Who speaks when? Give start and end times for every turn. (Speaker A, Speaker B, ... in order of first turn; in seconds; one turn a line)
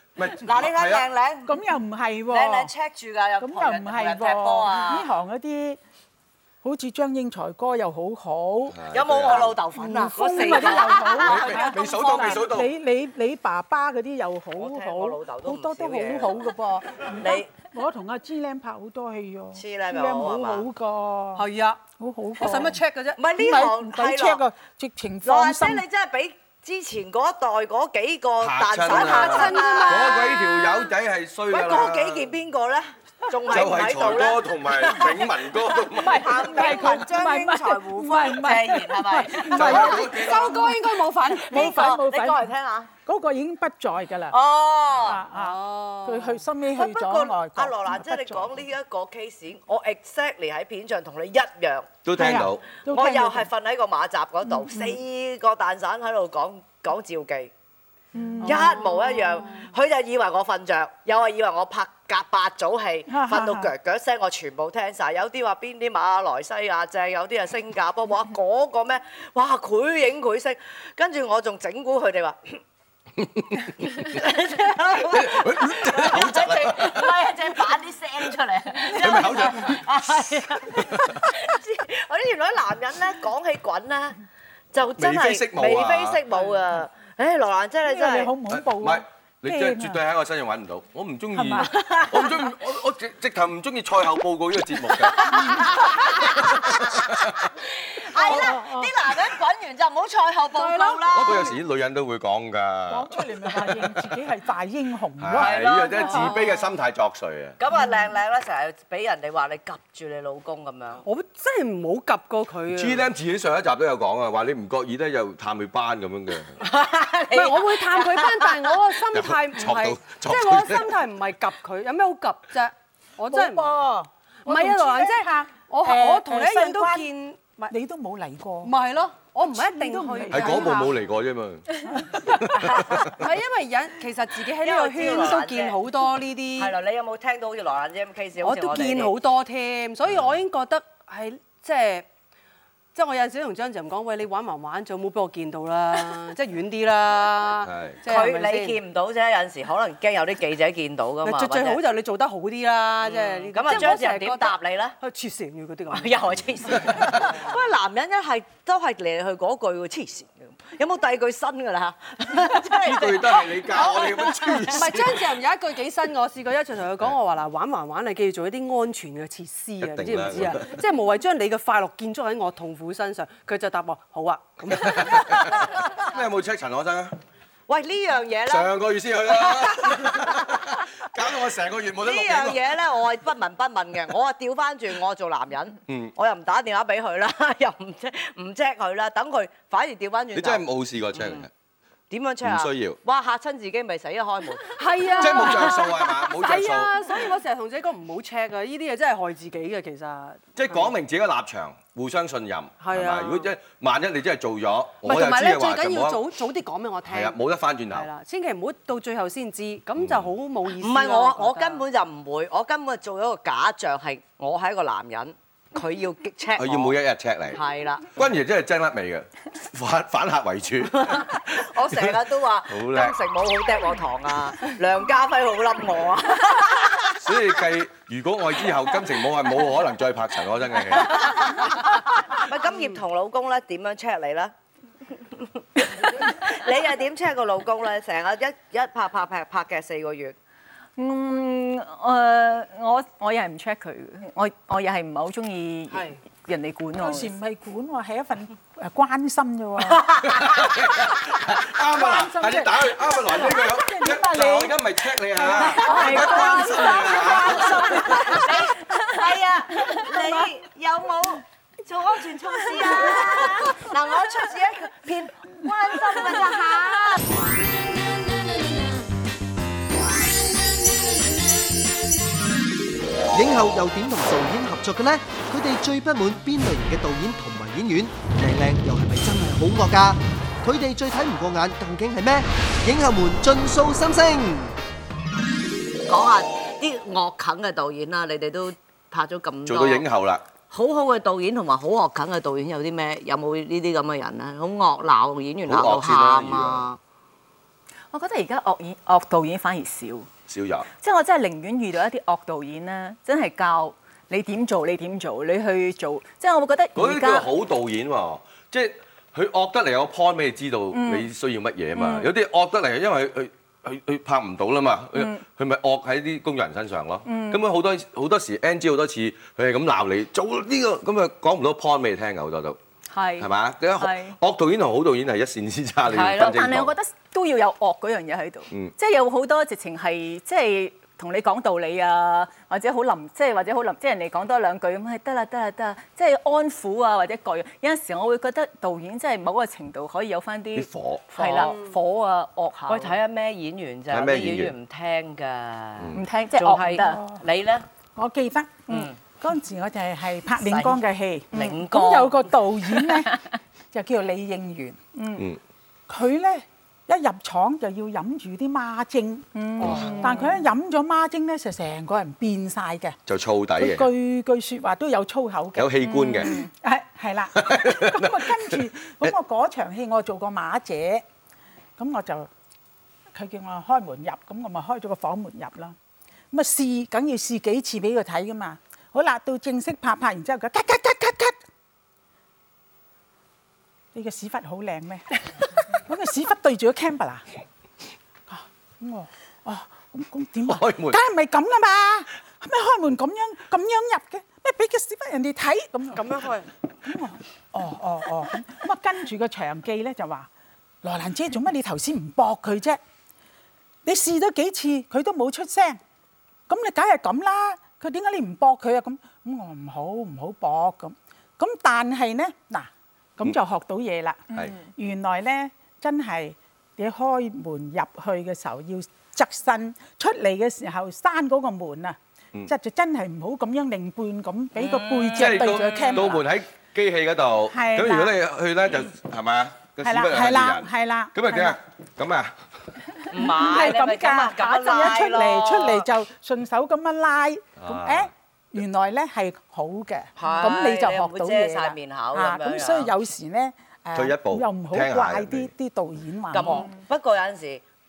Speaker A: 0.1-1.1
Speaker B: 0.4-1.5
Speaker C: 1.4-2.7
Speaker B: 2.3-5.1
Speaker C: 3.4-5.8
Speaker C: 6.6-8.8
Speaker A: 8.7-9.6
Speaker B: 8.9-12.5
Speaker C: 9.8-21.4
Speaker A: 11.2-12.7
Speaker B: 14.6-16.4
Speaker B: 17.2-17.5
Speaker B: 19.6-20.6
Speaker D: 21.4-21.8
Speaker C: 22.0-22.8
Speaker D: 22.4-23.2
Speaker B: 23.2-24.4
Speaker C: 23.4-25.8
Speaker B: 25.2-30.5
Speaker A: 28.4-32.3
Speaker D: 28.9-30.5
Speaker B: 31.5-40.2
Speaker A: 33.5-36.4
Speaker C: 36.0-40.8
Speaker A: 39.5-40.6
Speaker D: 39.6-41.9
Speaker C: 41.5-42.5
Speaker B: 41.5-42.9
Speaker C: 43.0-44.4
Speaker B: 44.3-45.2
Speaker C: 45.0-48.6
Speaker D: 45.3-46.4
Speaker B: 46.8-52.0
Speaker A: 52.0-52.6
Speaker C: 52.1-53.5
Speaker B: 52.9-57.5
Speaker C: 58.1-58.8
Speaker B: 58.4-72.6
Speaker D: 58.4-59.5
Speaker C: 63.1-63.7
Speaker A: 73.3-73.7
Speaker B: 73.8-84.2
Speaker A: 75.0-77.1
Speaker A: 78.9-81.2
Speaker B: 84.7-88.3
Speaker A: 85.0-86.2
Speaker C: 87.8-90.0
Speaker A: 88.5-97.4
Speaker C: 91.3-91.7
Speaker B: 91.6-92.4
Speaker B: 95.3-101.5
Speaker C: 98.1-98.9
Speaker D: 100.5-101.5
Speaker A: 101.1-103.1
Speaker C: 102.9-105.5
Speaker A: 105.2-107.6
Speaker B: 105.4-106.5
Speaker D: 106.0-106.5
Speaker B: 107.6-111.0
Speaker D: 111.0-113.0
Speaker A: 112.7-116.6
Speaker B: 116.6-118.7
Speaker D: 117.3-123.7
Speaker A: 119.1-120.9
Speaker C: 123.3-127.1
Speaker D: 124.5-127.7
Speaker C: 127.7-128.7
Speaker D: 128.6-130.9
Speaker C: 129.5-130.9
Speaker A: 130.3-133.1
Speaker D: 133.1-136.8
Speaker B: 134.6-135.8
Speaker B: 136.6-139.1
Speaker D: 138.4-142.1
Speaker D: 142.9-148.8
Speaker A: 147.6-148.0
Speaker B: 148.1-151.8
Speaker D: 151.2-157.5
Speaker B: 153.0-154.9
Speaker B: 155.9-164.8
Speaker A: 162.7-165.3
Speaker D: 164.7-175.6
Speaker A: 169.8-170.7
Speaker A: 174.6-177.2
Speaker B: 177.7-178.7
Speaker A: 178.4-182.8
Speaker B: 179.2-180.8
Speaker B: 182.0-190.6
Speaker A: 185.9-186.1
Speaker A: 190.3-191.5
Speaker B: 191.1-191.5
Speaker B: 192.1-195.6
Speaker A: 192.4-193.0
Speaker D: 194.7-200.9
Speaker A: 195.1-196.9
Speaker A: 200.6-206.2
Speaker D: 202.8-203.5
Speaker D: 205.0-207.4
Speaker A: 207.0-208.1
Speaker D: 207.9-211.8
Speaker A: 210.0-210.3
Speaker B: 210.7-216.9
Speaker A: 216.6-217.6
Speaker B: 217.5-218.1
Speaker A: 218.1-223.1
Speaker B: 220.9-227.2
Speaker A: 227.2-231.4
Speaker B: 230.9-234.5
Speaker D: 232.7-233.0
Speaker B: 235.1-240.3
Speaker E: 241.0-247.3
Speaker D: 245.9-246.2
Speaker C: 247.0-250.1
Speaker B: 249.9-250.6
Speaker A: 250.2-258.1
Speaker C: 251.9-254.8
Speaker C: 255.3-256.6
Speaker E: 255.6-258.2
Speaker B: 256.2-267.2
Speaker C: 257.5-258.4
Speaker F: 273.3-284.8
Speaker B: 286.1-290.0
Speaker A: 289.6-290.4
Speaker B: 290.7-297.0
Speaker A: 295.6-296.9
Speaker E: 298.1-300.3
Speaker A: 300.5-300.9
Speaker E: 301.0-307.5
Speaker A: 306.9-322.8
Speaker E: 310.9-311.3
Speaker E: 311.9-312.3
Speaker E: 317.2-317.6
Speaker E: 323.1-324.3
Speaker A: 323.4-326.9
Speaker B: 326.1-326.6
Speaker E: 326.2-343.2
Speaker A: 340.7-341.3
Speaker B: 341.4-341.8
Speaker D: 341.6-341.9
Speaker B: 342.9-347.8
Speaker A: 344.1-344.7
Speaker E: 346.1-347.2
Speaker C: 347.0-347.4
Speaker C: 348.1-353.3
Speaker B: 348.9-349.2
Speaker B: 350.6-351.0
Speaker B: 351.5-352.5
Speaker C: 353.9-355.1
Speaker E: 355.1-355.5
Speaker C: 356.1-363.2
Speaker E: 359.6-360.6
Speaker A: 359.8-360.2
Speaker A: 363.3-364.1
Speaker C: 363.8-371.2
Speaker A: 365.7-366.6
Speaker E: 366.1-366.7
Speaker A: 367.5-369.3
Speaker C: 372.0-372.5
Speaker C: 373.3-375.9
Speaker C: 376.5-381.6
Speaker C: 384.1-387.4
Speaker C: 388.5-396.4
Speaker A: 390.7-391.2
Speaker D: 396.1-396.7
Speaker C: 397.0-400.5
Speaker C: 401.0-403.0
Speaker C: 404.0-406.0
Speaker C: 406.7-426.5
Speaker B: 424.7-426.3
Speaker A: 425.3-432.5
Speaker C: 427.7-428.3
Speaker C: 430.0-431.8
Speaker B: 433.3-436.0
Speaker C: 433.3-446.9
Speaker A: 437.8-438.3
Speaker B: 440.4-443.1
Speaker A: 444.1-445.7
Speaker B: 446.5-447.8